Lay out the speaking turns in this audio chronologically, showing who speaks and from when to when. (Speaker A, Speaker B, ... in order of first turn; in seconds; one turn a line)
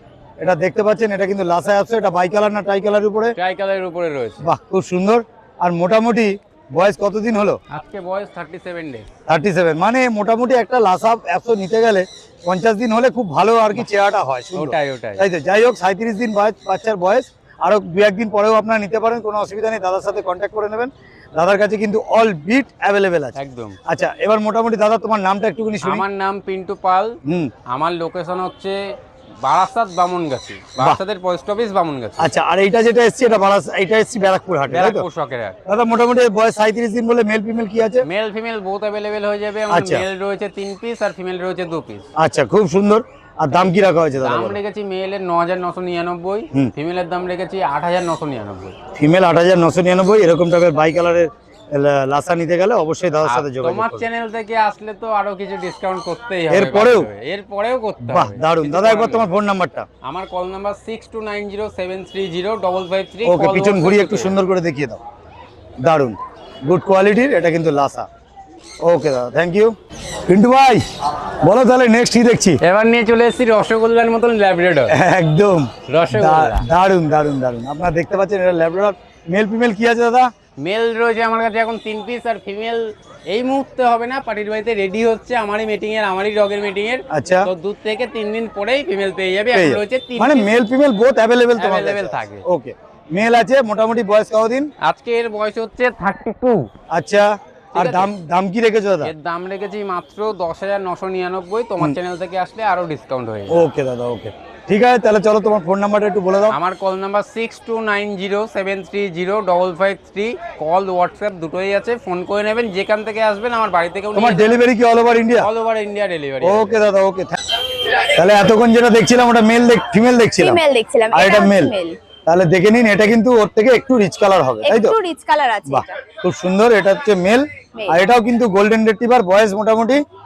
Speaker A: 0.4-3.3
Speaker B: 3.4-4.4
Speaker A: 4.4-7.6
Speaker B: 7.7-9.1
Speaker A: 9.3-26.0
Speaker B: 14.5-15.2
Speaker B: 23.4-23.8
Speaker B: 25.8-27.2
Speaker A: 27.2-27.5
Speaker B: 27.7-32.3
Speaker A: 32.2-35.0
Speaker B: 34.7-35.6
Speaker A: 35.7-38.0
Speaker B: 38.0-42.0
Speaker A: 39.7-40.0
Speaker A: 42.2-44.6
Speaker B: 44.2-48.7
Speaker A: 48.9-54.0
Speaker B: 53.2-59.2
Speaker A: 56.5-57.1
Speaker A: 58.0-59.9
Speaker B: 60.0-64.3
Speaker A: 63.2-65.0
Speaker A: 65.8-68.1
Speaker A: 68.8-69.7
Speaker A: 70.3-70.8
Speaker A: 71.4-72.6
Speaker B: 72.6-74.9
Speaker A: 74.9-80.3
Speaker B: 75.9-76.6
Speaker B: 80.6-90.5
Speaker A: 87.1-87.5
Speaker A: 89.5-94.7
Speaker B: 91.5-92.4
Speaker B: 94.8-96.7
Speaker A: 96.9-99.1
Speaker B: 97.7-98.1
Speaker B: 99.0-103.6
Speaker A: 103.5-106.6
Speaker B: 106.5-114.5
Speaker A: 114.1-115.5
Speaker B: 115.4-116.8
Speaker A: 116.4-120.6
Speaker C: 120.4-122.0
Speaker A: 121.1-121.7
Speaker A: 122.3-125.0
Speaker C: 124.6-126.0
Speaker A: 125.7-130.0
Speaker C: 127.7-128.0